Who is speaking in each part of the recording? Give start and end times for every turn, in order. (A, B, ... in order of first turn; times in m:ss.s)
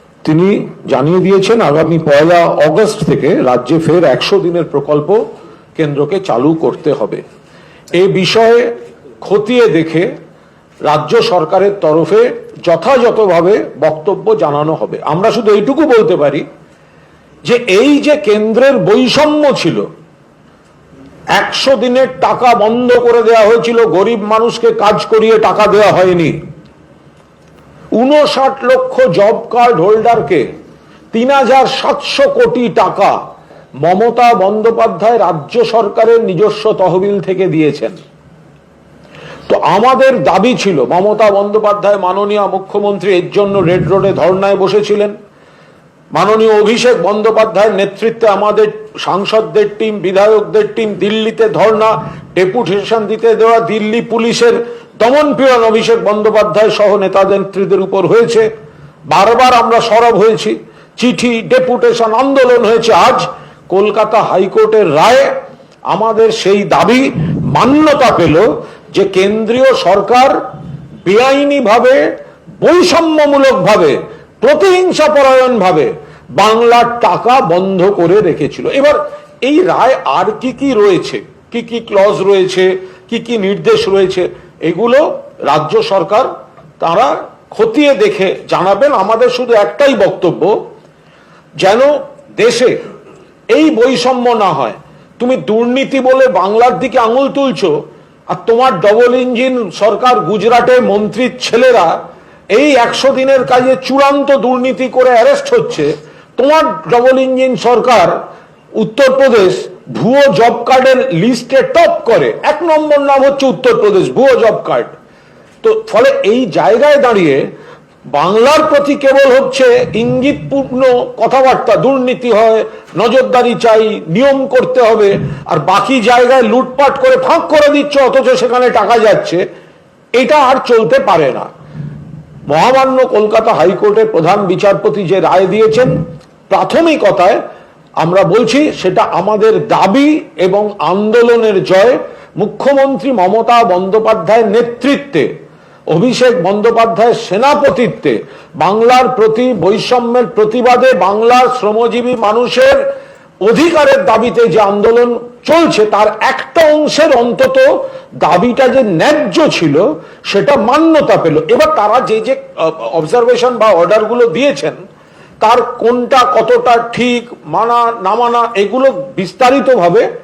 0:00.2-0:05.2 A
0:05.8-0:07.2 A
0:07.9-0:08.7 A
0:09.2-0:10.1 A
0:10.8-0:16.4 A
0:17.4-0:19.8 A
0:21.3-0:26.3 A
0:27.9-0:30.5 A
0:31.1-0:33.2 A
0:33.8-0:38.0 A
0:39.5-0:45.1 A
0:46.1-0:58.5 A
0:59.1-1:05.3 A
1:05.9-1:10.3 A
1:11.0-1:12.0 A
1:12.6-1:26.3 A
1:26.8-1:30.5 A
1:31.6-1:32.8 A
1:33.5-1:37.7 A
1:38.3-1:41.9 A
1:42.5-1:48.1 A
1:48.8-1:54.9 A
1:55.6-1:57.4 A
1:58.1-2:09.4 A
2:10.2-2:11.5 A
2:12.5-2:15.9 A
2:16.5-2:17.4 A
2:18.0-2:25.3 A
2:25.9-2:32.8 A
2:33.4-2:37.7 A
2:38.2-2:44.8 A
2:45.4-2:50.1 A